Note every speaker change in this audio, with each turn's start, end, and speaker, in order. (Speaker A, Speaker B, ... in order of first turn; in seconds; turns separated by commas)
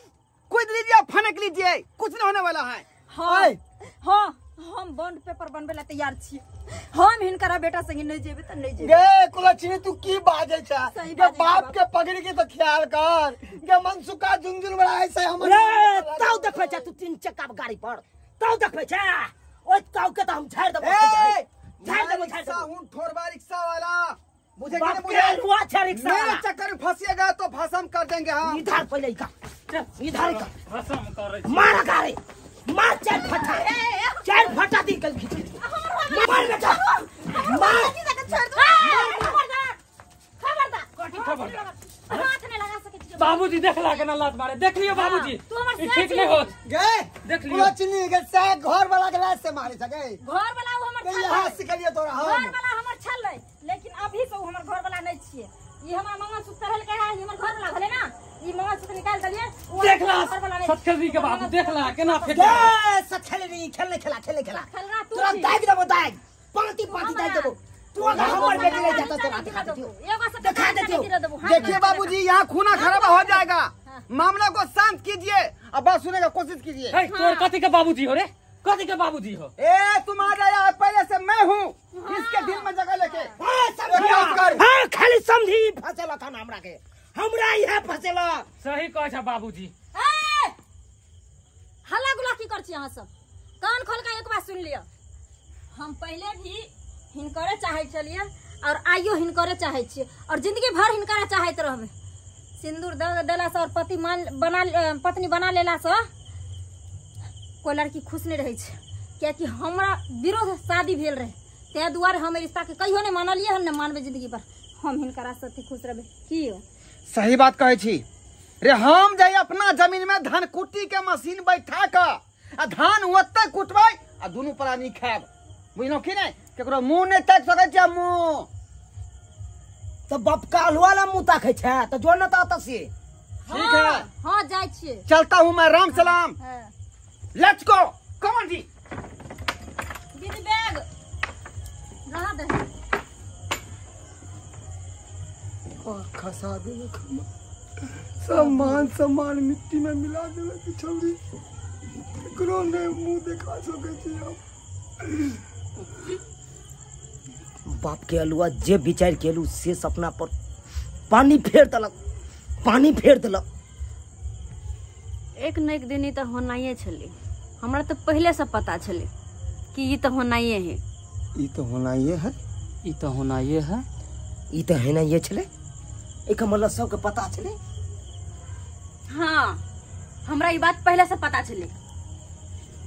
Speaker A: 0.5-2.8, Speaker B: 3.1-8.9, Speaker C: 3.2-3.6, Speaker C: 8.8-16.8, Speaker B: 10.9-11.8, Speaker D: 15.4-22.7, Speaker A: 20.8-28.8, Speaker D: 24.7-26.4, Speaker D: 28.4-29.3, Speaker E: 29.7-31.8, Speaker D: 30.0-30.5, Speaker D: 31.4-33.7, Speaker F: 33.2-34.5, Speaker D: 34.2-35.6, Speaker B: 35.6-39.7, Speaker D: 36.1-38.0, Speaker F: 36.1-37.8, Speaker F: 38.5-39.4, Speaker D: 38.9-39.3, Speaker B: 40.4-44.0, Speaker E: 41.0-42.3, Speaker E: 43.2-46.5, Speaker B: 44.9-46.5, Speaker C: 46.6-50.2, Speaker E: 47.2-47.7, Speaker B: 50.2-51.6, Speaker C: 51.0-52.5, Speaker B: 52.1-62.7, Speaker E: 59.8-62.8, Speaker D: 62.3-69.9, Speaker B: 64.5-65.6, Speaker B: 66.9-72.2, Speaker D: 70.4-71.1, Speaker A: 71.4-77.0, Speaker B: 72.7-74.0, Speaker E: 76.9-79.5, Speaker B: 77.1-77.5, Speaker A: 79.6-83.3, Speaker B: 81.9-83.3, Speaker D: 83.4-88.5, Speaker A: 83.9-84.6, Speaker E: 88.6-89.7, Speaker B: 89.9-90.5, Speaker B: 91.8-93.1, Speaker B: 93.6-94.9, Speaker B: 95.7-101.9, Speaker B: 102.6-106.0, Speaker B: 107.6-116.6, Speaker A: 117.1-118.0, Speaker A: 118.6-128.5, Speaker D: 130.1-132.9, Speaker B: 133.4-135.1, Speaker A: 133.5-134.1, Speaker A: 135.1-136.3, Speaker B: 135.9-136.7, Speaker A: 137.3-138.7, Speaker B: 140.2-140.8, Speaker B: 142.1-142.7, Speaker C: 145.8-147.3, Speaker C: 148.2-151.2, Speaker C: 152.2-154.4, Speaker D: 157.7-160.3, Speaker D: 161.1-161.9, Speaker D: 162.6-163.4, Speaker F: 165.4-169.1, Speaker F: 169.7-170.8, Speaker C: 171.4-172.3, Speaker E: 172.8-173.8, Speaker D: 174.5-175.5, Speaker D: 176.3-177.6, Speaker F: 179.1-179.6, Speaker F: 180.2-181.7